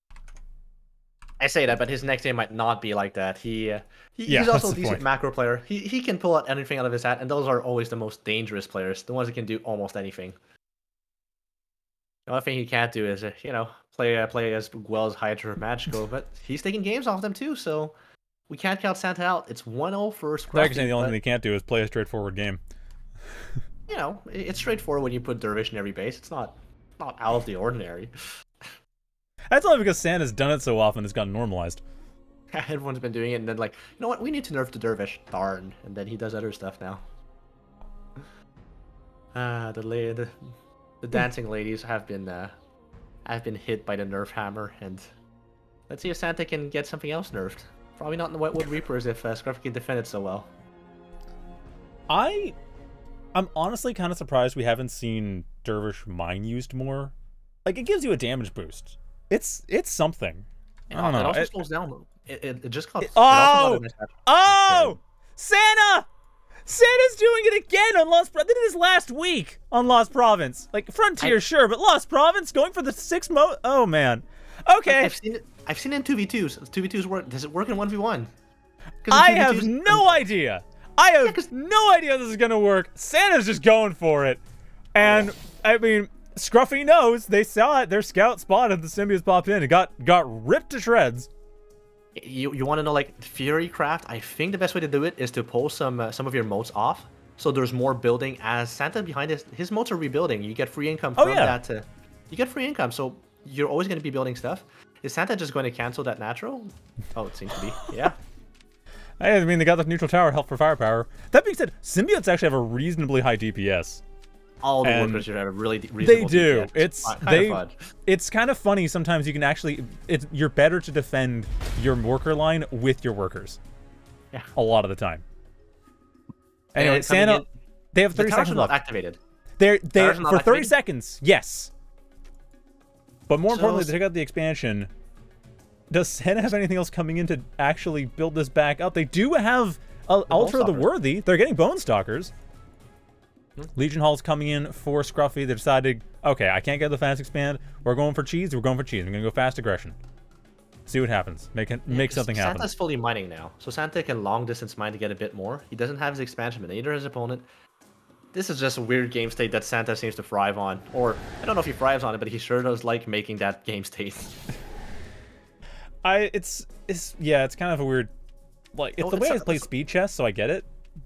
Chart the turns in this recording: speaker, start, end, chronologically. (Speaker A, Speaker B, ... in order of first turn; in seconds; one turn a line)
Speaker A: 1.4-10.3
Speaker B: 4.3-5.0
Speaker A: 12.3-17.9
Speaker A: 18.5-21.2
Speaker B: 20.5-22.6
Speaker B: 23.3-23.5
Speaker A: 23.9-28.7
Speaker B: 29.5-31.8
Speaker A: 32.5-37.0
Speaker A: 39.3-40.5
Speaker A: 41.0-42.5
Speaker A: 43.2-45.0
Speaker A: 45.9-50.5
Speaker B: 52.1-52.5
Speaker B: 53.3-57.1
Speaker B: 57.6-61.5
Speaker A: 60.9-65.0
Speaker B: 63.0-66.1
Speaker B: 66.7-75.1
Speaker A: 74.8-78.3
Speaker A: 79.0-80.1
Speaker B: 79.1-84.4
Speaker A: 81.2-81.5
Speaker B: 84.9-91.3
Speaker A: 85.0-85.3
Speaker A: 92.2-108.2
Speaker B: 101.2-101.6
Speaker B: 107.6-108.1
Speaker B: 109.2-114.0
Speaker A: 114.6-117.7
Speaker B: 114.8-115.3
Speaker B: 116.0-123.6
Speaker B: 124.5-125.2
Speaker A: 126.7-127.5
Speaker B: 126.8-128.7
Speaker A: 128.1-129.2
Speaker B: 129.6-131.7
Speaker A: 129.9-130.7
Speaker B: 133.3-134.9
Speaker A: 133.5-133.9
Speaker B: 135.9-142.3
Speaker A: 140.3-140.9
Speaker B: 143.7-150.0
Speaker B: 150.9-152.7
Speaker A: 151.9-157.4
Speaker A: 158.3-164.4
Speaker B: 166.0-168.1
Speaker B: 168.7-170.7
Speaker A: 169.0-169.7